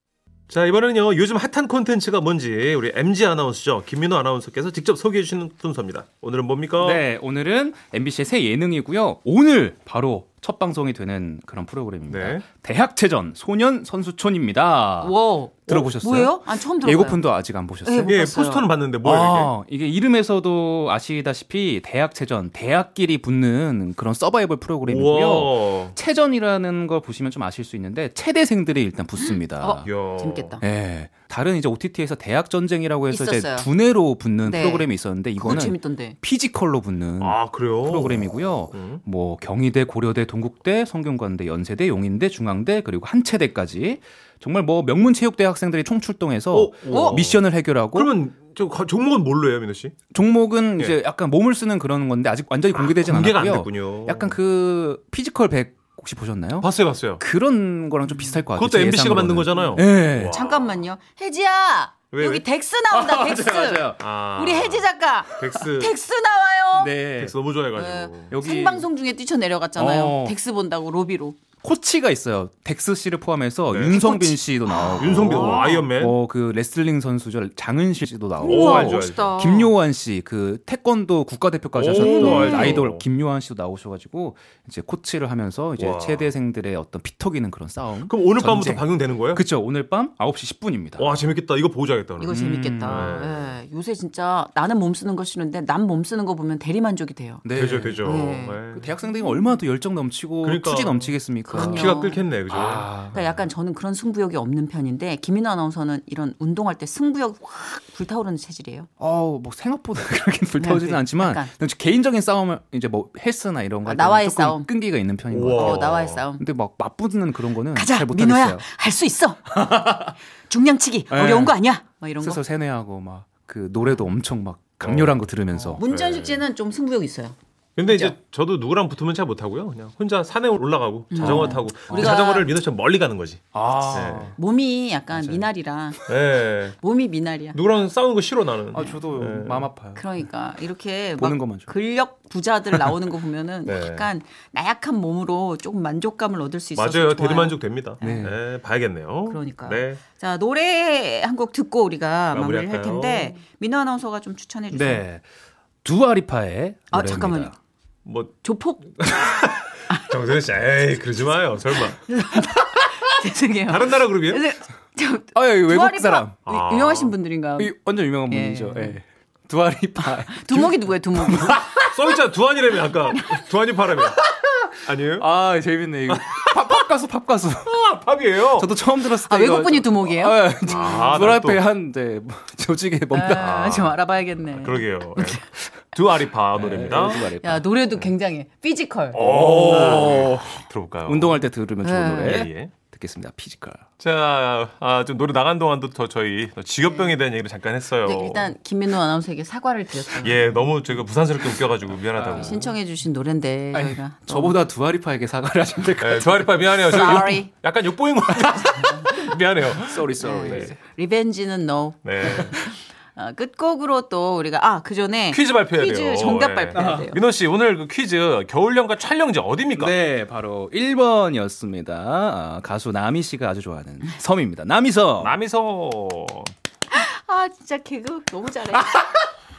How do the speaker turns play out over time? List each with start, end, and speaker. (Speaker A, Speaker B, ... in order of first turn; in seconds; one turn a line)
Speaker A: 0.5-7.0
Speaker B: 6.8-15.2
Speaker A: 12.1-12.4
Speaker C: 15.0-17.2
Speaker B: 15.7-18.2
Speaker C: 17.8-18.7
Speaker A: 18.1-19.5
Speaker B: 19.0-29.9
Speaker A: 24.9-25.9
Speaker C: 29.2-30.6
Speaker A: 29.8-30.6
Speaker B: 30.6-48.1
Speaker C: 33.1-33.7
Speaker C: 34.4-36.2
Speaker A: 37.2-39.0
Speaker A: 46.5-50.0
Speaker C: 46.9-47.2
Speaker B: 50.1-56.7
Speaker A: 52.8-54.4
Speaker A: 56.6-57.2
Speaker B: 57.2-60.4
Speaker A: 58.5-60.8
Speaker C: 60.3-66.9
Speaker A: 62.1-62.4
Speaker B: 62.9-64.0
Speaker A: 64.0-65.9
Speaker B: 66.8-67.3
Speaker A: 67.2-68.3
Speaker C: 67.8-71.4
Speaker B: 68.3-68.9
Speaker B: 69.8-70.4
Speaker B: 71.6-91.1
Speaker A: 73.7-74.0
Speaker C: 73.9-75.9
Speaker A: 75.0-76.2
Speaker C: 78.4-79.7
Speaker A: 78.4-79.4
Speaker A: 81.8-83.0
Speaker C: 81.9-82.8
Speaker A: 85.8-86.3
Speaker A: 88.1-89.4
Speaker A: 91.0-93.5
Speaker C: 92.2-97.4
Speaker B: 92.3-93.2
Speaker B: 97.4-98.1
Speaker A: 97.6-98.9
Speaker C: 98.0-98.6
Speaker B: 98.7-103.2
Speaker A: 100.4-103.2
Speaker C: 101.5-102.2
Speaker C: 103.1-108.9
Speaker B: 109.0-118.7
Speaker C: 110.6-111.5
Speaker C: 113.9-114.7
Speaker A: 115.3-116.2
Speaker C: 115.5-116.4
Speaker C: 117.7-122.4
Speaker B: 119.5-120.1
Speaker B: 121.1-121.6
Speaker B: 122.2-125.8
Speaker A: 124.8-125.2
Speaker C: 125.7-128.2
Speaker A: 125.8-126.4
Speaker A: 127.8-134.3
Speaker C: 131.1-132.5
Speaker B: 131.2-132.2
Speaker B: 133.5-134.4
Speaker C: 134.3-136.0
Speaker A: 136.1-136.8
Speaker C: 136.8-137.6
Speaker A: 137.5-139.7
Speaker B: 138.7-140.1
Speaker C: 139.9-148.3
Speaker B: 141.2-141.7
Speaker A: 143.7-144.1
Speaker A: 146.8-150.0
Speaker B: 148.0-148.4
Speaker C: 149.3-155.1
Speaker A: 152.3-153.4
Speaker B: 154.7-155.2
Speaker B: 155.8-157.6
Speaker C: 156.9-157.5
Speaker A: 158.1-158.4
Speaker C: 158.4-158.9
Speaker A: 159.0-162.0
Speaker C: 162.1-167.8
Speaker A: 163.7-164.4
Speaker B: 165.3-166.4
Speaker A: 166.5-167.2
Speaker B: 167.6-172.0
Speaker C: 168.3-169.0
Speaker C: 170.1-171.8
Speaker A: 171.8-174.3
Speaker C: 173.1-173.4
Speaker B: 174.2-177.8
Speaker A: 174.8-175.3
Speaker A: 176.1-176.7
Speaker A: 177.7-178.7
Speaker B: 178.5-183.9
Speaker C: 179.2-180.9
Speaker A: 180.7-181.7
Speaker C: 183.1-185.4
Speaker A: 183.4-183.9
Speaker A: 184.6-187.3
Speaker B: 186.6-187.6
Speaker C: 187.2-190.2
Speaker A: 189.1-191.4
Speaker B: 189.2-193.8
Speaker C: 191.8-192.5
Speaker A: 192.2-192.7
Speaker A: 194.0-198.5
Speaker C: 198.1-200.6
Speaker A: 200.2-202.7
Speaker B: 202.1-202.7
Speaker C: 202.3-204.6
Speaker B: 203.7-207.3
Speaker A: 206.0-210.7
Speaker C: 206.9-207.5
Speaker C: 208.7-209.3
Speaker B: 209.8-210.8
Speaker C: 210.2-217.2
Speaker A: 212.0-212.7
Speaker A: 215.3-219.9
Speaker B: 216.8-217.1
Speaker B: 219.8-225.4
Speaker A: 225.2-226.5
Speaker C: 226.9-229.0